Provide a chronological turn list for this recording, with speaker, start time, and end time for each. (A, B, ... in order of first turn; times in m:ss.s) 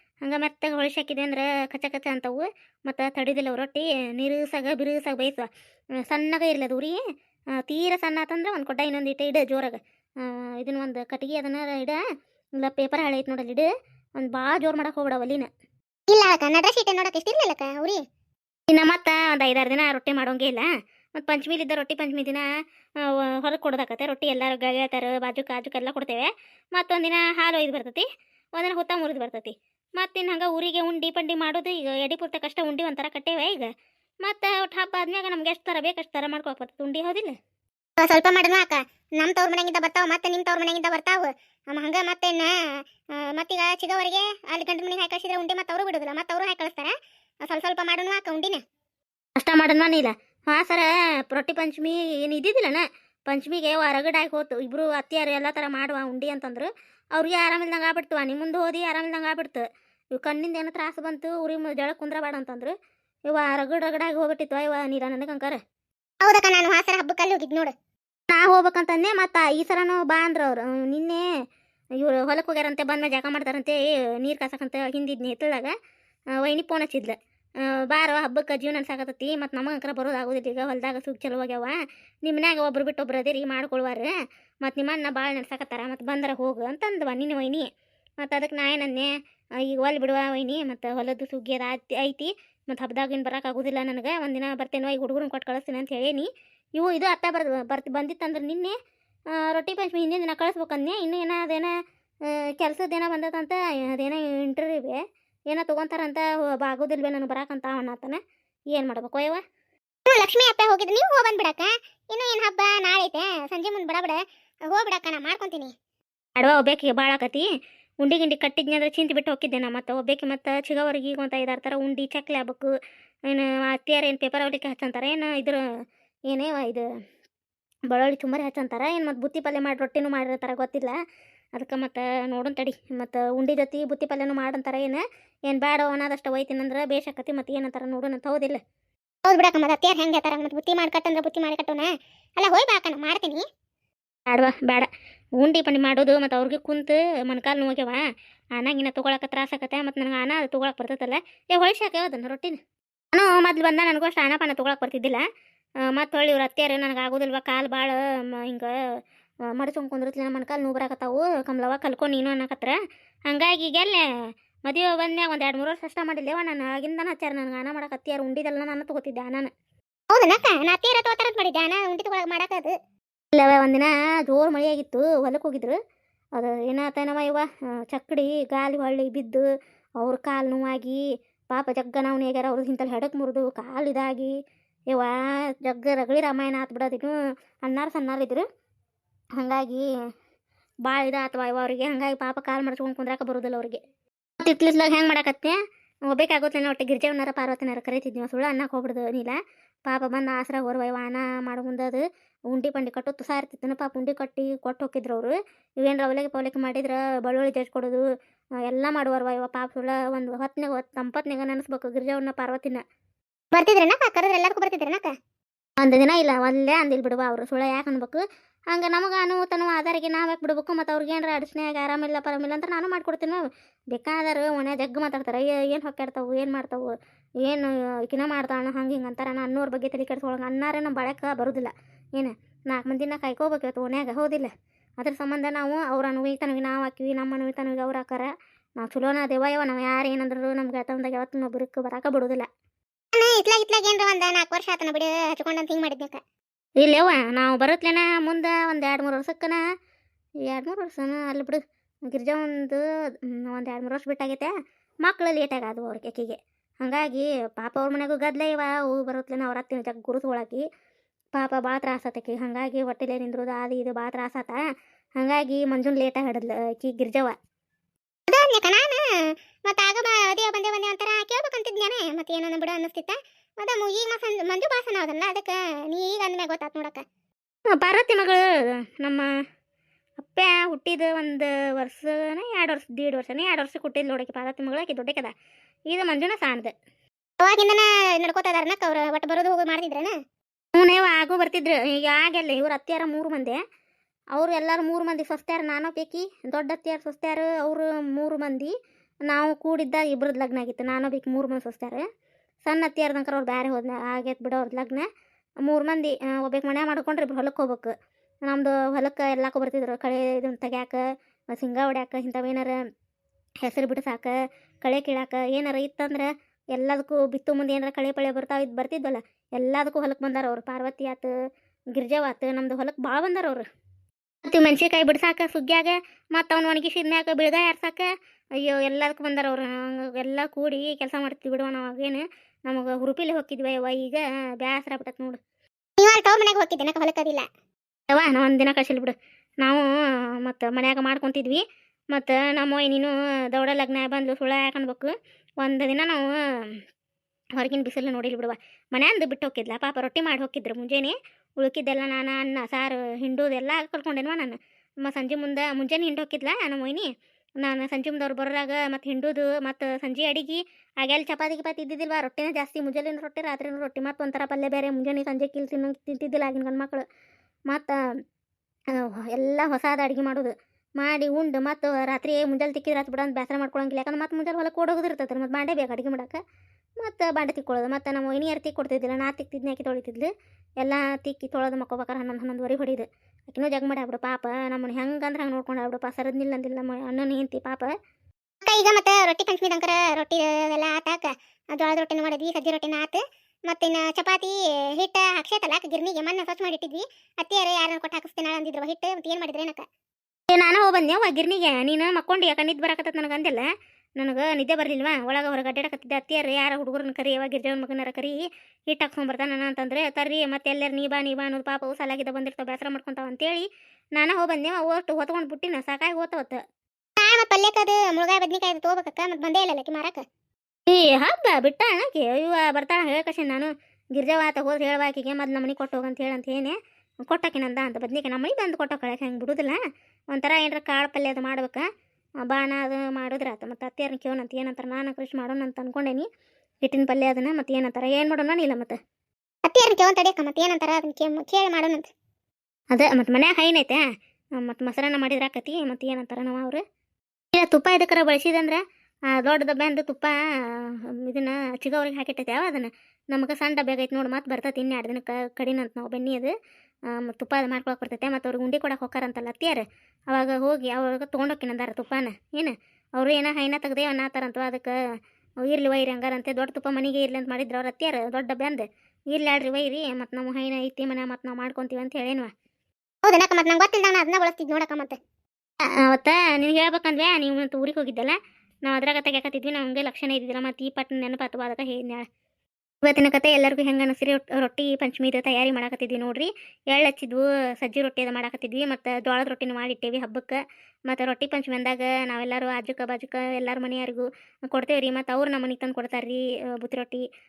0:00.2-0:05.5 A
0:06.1-0:07.0 A
0:07.6-0:12.0 A
0:12.6-0:15.5 A
0:16.1-0:18.0 B
0:18.7-0:20.6 A
0:21.2-0:22.4 A
0:23.4-0:28.0 A
0:28.6-0:33.7 A
0:34.2-0:37.3 A
0:38.0-0:42.5 B
0:43.2-0:46.9 B
0:47.4-0:48.6 B
0:49.4-0:59.6 A
1:00.2-1:02.7 A
1:03.3-1:05.6 A
1:06.2-1:07.7 B
1:08.3-1:11.2 A
1:12.0-1:15.7 A
1:16.4-1:17.1 A
1:17.9-1:21.7 A
1:22.2-1:24.1 A
1:24.6-1:27.6 A
1:28.2-1:29.1 A
1:29.6-1:38.7 A
1:39.4-1:41.7 A
1:42.6-1:45.0 A
1:45.5-1:48.2 A
1:48.7-1:49.4 A
1:50.1-1:54.2 B
1:54.7-1:55.7 B
1:56.4-1:57.4 A
1:58.0-2:02.7 A
2:03.3-2:05.6 A
2:06.3-2:06.8 A
2:07.9-2:10.9 A
2:11.6-2:18.6 A
2:19.2-2:23.4 B
2:24.3-2:24.9 A
2:25.4-2:28.0 A
2:28.6-2:32.6 A
2:33.1-2:35.2 A
2:35.9-2:38.7 A
2:39.5-2:42.8 A
2:43.3-2:44.0 A
2:44.7-2:49.5 A
2:50.1-2:52.7 B
2:53.3-2:55.8 A
2:56.4-2:59.4 A
3:00.0-3:01.0 A
3:01.5-3:04.3 A
3:04.9-3:07.1 A
3:07.6-3:08.4 A
3:09.4-3:09.8 A
3:10.8-3:13.8 A
3:14.4-3:15.6 A
3:16.1-3:28.0 A
3:28.7-3:32.8 A
3:33.5-3:35.1 B
3:35.8-3:46.9 A
3:47.4-4:02.5 A
4:03.1-4:06.2 B
4:06.8-4:09.6 A
4:10.5-4:12.8 A
4:13.5-4:14.5 A
4:15.0-4:20.6 A
4:21.4-4:24.6 A
4:25.2-4:27.4 A
4:28.3-4:29.0 B
4:29.7-4:37.0 B
4:37.7-4:38.4 A
4:40.2-4:45.3 A
4:45.9-4:46.7 A
4:47.4-4:50.1 B
4:50.8-4:53.6 A
4:54.3-4:58.7 A
4:59.3-5:02.0 A
5:02.6-5:05.1 A
5:05.7-5:07.9 A
5:08.5-5:11.0 A
5:11.5-5:12.7 A
5:13.6-5:21.3 A
5:21.9-5:23.6 A
5:24.5-5:28.1 A
5:28.6-5:35.4 A
5:36.0-5:37.4 B
5:38.1-5:39.8 A
5:40.4-5:41.6 A
5:42.1-5:46.7 A
5:47.6-5:57.1 A
5:57.6-6:07.0 A
6:09.0-6:16.4 A
6:17.0-6:20.3 A
6:20.8-6:27.9 A
6:28.6-6:39.8 B
6:40.5-6:43.6 A
6:44.2-6:56.6 A
6:57.2-7:00.2 B
7:00.9-7:06.8 A
7:07.3-7:09.8 A
7:10.3-7:11.8 A
7:12.5-7:16.3 A
7:16.8-7:19.0 A
7:19.7-7:22.1 B
7:22.9-7:24.0 A
7:24.6-7:26.8 A
7:27.5-7:28.8 A
7:29.4-7:36.5 A
7:37.1-7:44.9 A
7:45.6-7:52.5 A
7:53.3-7:55.2 B
7:56.1-8:02.3 A
8:03.0-8:17.2 A